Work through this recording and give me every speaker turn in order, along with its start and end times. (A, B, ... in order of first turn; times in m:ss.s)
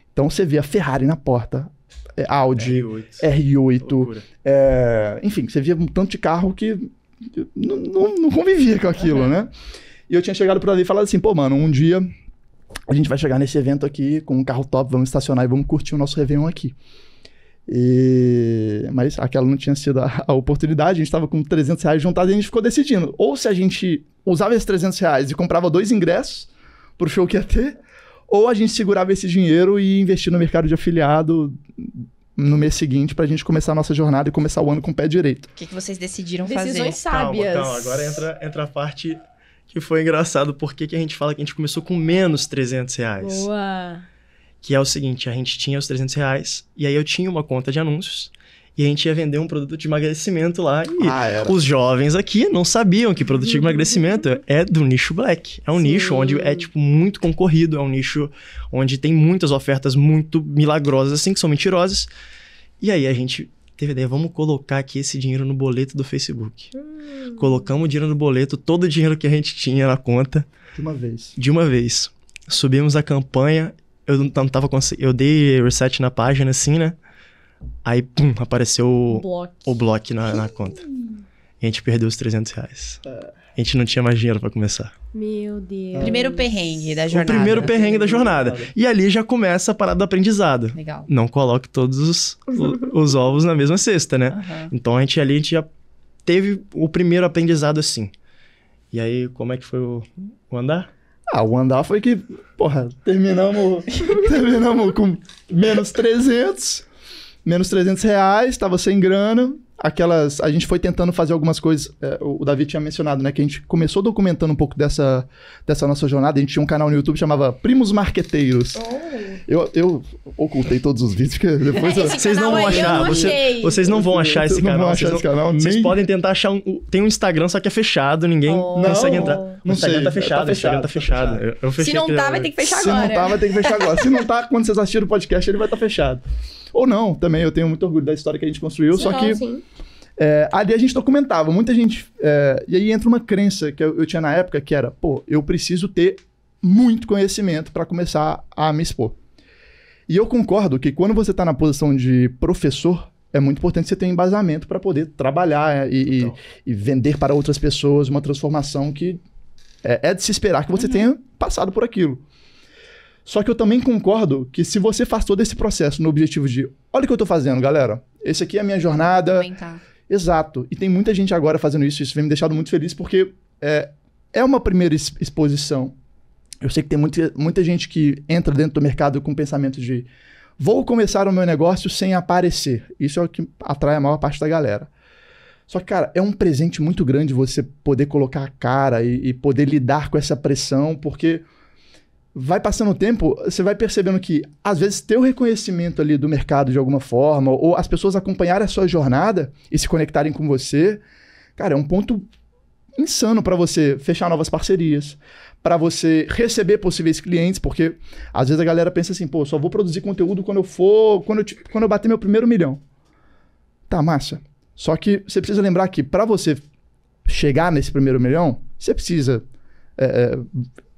0:00.1-0:09.5 A
0:02.5-0:03.3 B
0:03.8-0:04.2 B
0:10.1-0:12.1 A
0:12.9-0:16.8 A
0:17.7-0:35.5 A
0:35.6-0:37.0 C
0:36.4-0:38.2 D
0:37.1-0:43.5 B
0:43.2-0:44.0 D
0:44.6-1:02.1 B
0:51.0-0:51.6 A
0:56.2-0:56.4 D
1:02.8-1:06.7 B
1:07.3-1:10.5 B
1:10.7-1:11.4 A
1:11.4-1:17.0 B
1:17.8-1:20.9 B
1:19.1-1:19.6 D
1:21.6-1:23.0 B
1:23.6-1:24.9 B
1:25.1-1:26.5 D
1:25.9-1:26.2 A
1:26.0-1:27.7 C
1:27.1-1:35.7 B
1:27.5-1:28.7 A
1:30.7-1:31.1 C
1:34.3-1:34.7 C
1:36.2-1:38.1 B
1:38.9-1:40.9 B
1:41.3-1:46.8 A
1:47.4-1:58.8 A
1:58.8-1:59.4 D
1:59.4-2:06.0 A
2:01.8-2:03.8 D
2:02.1-2:12.5 B
2:02.2-2:03.1 C
2:08.5-2:09.5 D
2:08.7-2:11.4 A
2:11.8-2:13.9 D
2:12.6-2:19.4 A
2:18.9-2:19.6 D
2:20.2-2:29.2 A
2:30.1-2:39.2 A
2:39.8-2:42.2 A
2:43.2-2:49.5 A
2:49.2-2:49.8 C
2:50.1-2:55.9 A
2:56.6-3:00.1 A
3:00.6-3:04.9 A
3:05.7-3:11.4 A
3:12.3-3:21.0 A
3:21.6-3:22.3 A
3:23.0-3:32.8 A
3:33.9-3:36.6 A
3:37.2-3:39.4 A
3:40.0-3:40.7 A